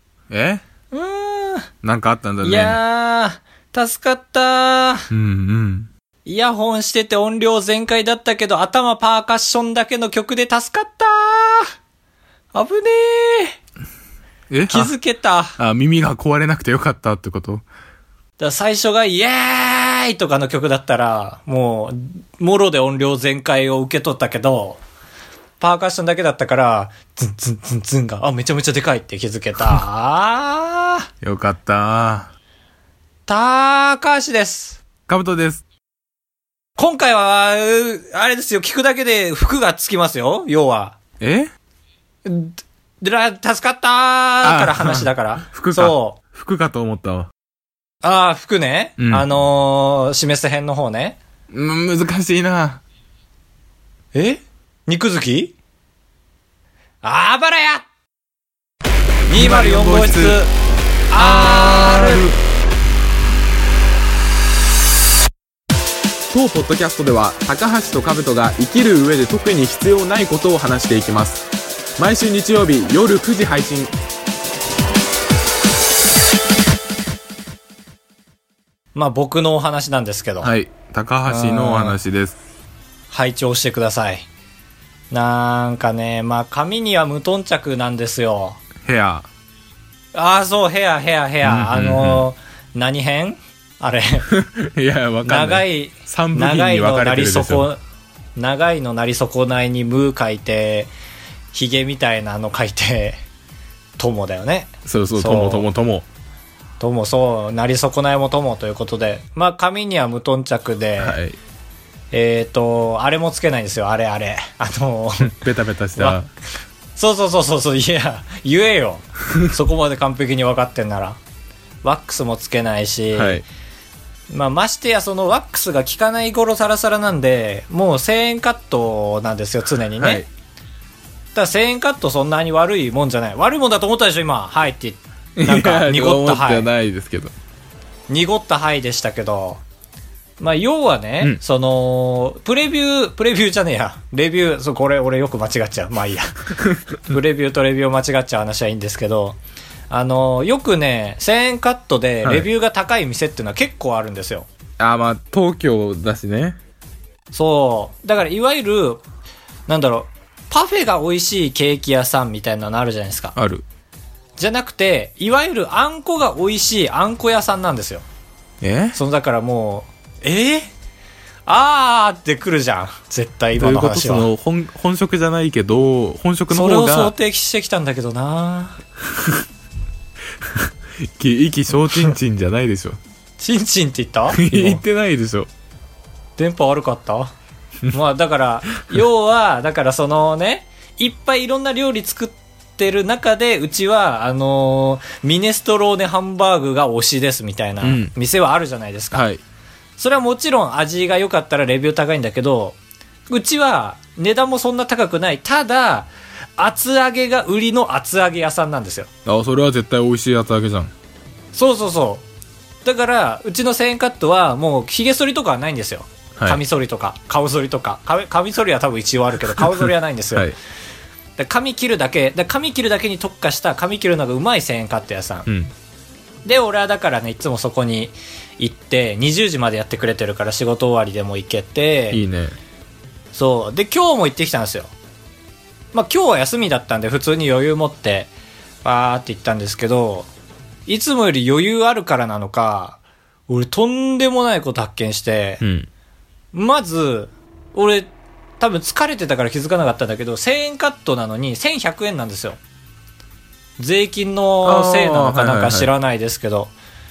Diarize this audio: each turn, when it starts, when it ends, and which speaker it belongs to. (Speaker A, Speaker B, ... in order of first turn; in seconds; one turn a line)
Speaker A: 0.3-0.6
Speaker B: 0.9-1.7
Speaker A: 1.8-2.8
Speaker B: 2.4-5.1
Speaker A: 5.1-5.9
Speaker B: 6.2-11.7
Speaker B: 12.5-13.6
Speaker A: 14.5-14.9
Speaker B: 14.7-15.6
Speaker A: 15.6-17.6
Speaker B: 18.4-24.8
Speaker B: 25.6-31.1
Speaker A: 31.2-32.3
Speaker B: 33.3-34.8
Speaker A: 35.1-35.6
Speaker B: 36.8-41.0
Speaker A: 41.2-41.5
Speaker B: 42.2-46.2
Speaker A: 44.4-47.3
Speaker B: 48.0-51.2
Speaker A: 49.0-49.2
Speaker A: 51.5-52.8
Speaker B: 54.1-55.5
Speaker B: 57.0-57.9
Speaker B: 59.3-60.5
Speaker A: 59.3-60.4
Speaker B: 61.1-62.3
Speaker A: 61.2-62.4
Speaker A: 66.3-71.5
Speaker A: 72.0-73.9
Speaker B: 79.0-80.5
Speaker A: 80.4-82.4
Speaker B: 81.3-82.0
Speaker B: 83.1-84.3
Speaker B: 85.1-88.6
Speaker A: 88.9-89.3
Speaker B: 90.1-94.2
Speaker A: 91.4-92.3
Speaker A: 94.3-97.7
Speaker B: 95.2-97.8
Speaker B: 98.4-100.9
Speaker B: 101.5-103.2
Speaker B: 104.0-105.7
Speaker A: 104.9-106.1
Speaker B: 106.8-111.2
Speaker A: 111.0-111.4
Speaker B: 112.1-115.4
Speaker A: 115.2-116.3
Speaker B: 117.0-121.2
Speaker B: 121.8-123.4
Speaker A: 123.2-123.5
Speaker B: 124.3-130.2
Speaker A: 130.0-130.3
Speaker B: 131.3-136.7
Speaker A: 135.4-137.3
Speaker B: 138.1-139.6
Speaker B: 140.4-146.5
Speaker B: 147.0-149.4
Speaker B: 149.9-154.5
Speaker A: 154.8-156.6
Speaker B: 157.3-159.0
Speaker B: 159.7-163.3
Speaker A: 163.4-163.6
Speaker B: 164.4-168.1
Speaker A: 168.6-169.0
Speaker B: 168.9-170.7
Speaker B: 171.5-174.3
Speaker A: 173.6-177.1
Speaker B: 176.5-178.8
Speaker A: 180.5-183.0
Speaker B: 183.4-184.8
Speaker A: 184.3-185.5
Speaker B: 186.4-187.3
Speaker B: 187.9-199.2
Speaker A: 197.8-198.1
Speaker A: 199.1-199.4
Speaker B: 200.0-202.8
Speaker B: 203.3-209.1
Speaker A: 209.3-210.9
Speaker B: 211.5-212.2
Speaker B: 212.8-220.5
Speaker B: 221.4-225.5
Speaker B: 226.4-232.2
Speaker A: 232.1-232.6
Speaker B: 233.3-234.9
Speaker B: 235.9-238.3
Speaker B: 238.8-240.3
Speaker B: 240.9-245.6
Speaker A: 245.6-245.9
Speaker B: 246.5-252.6
Speaker B: 253.8-256.7
Speaker A: 254.6-255.9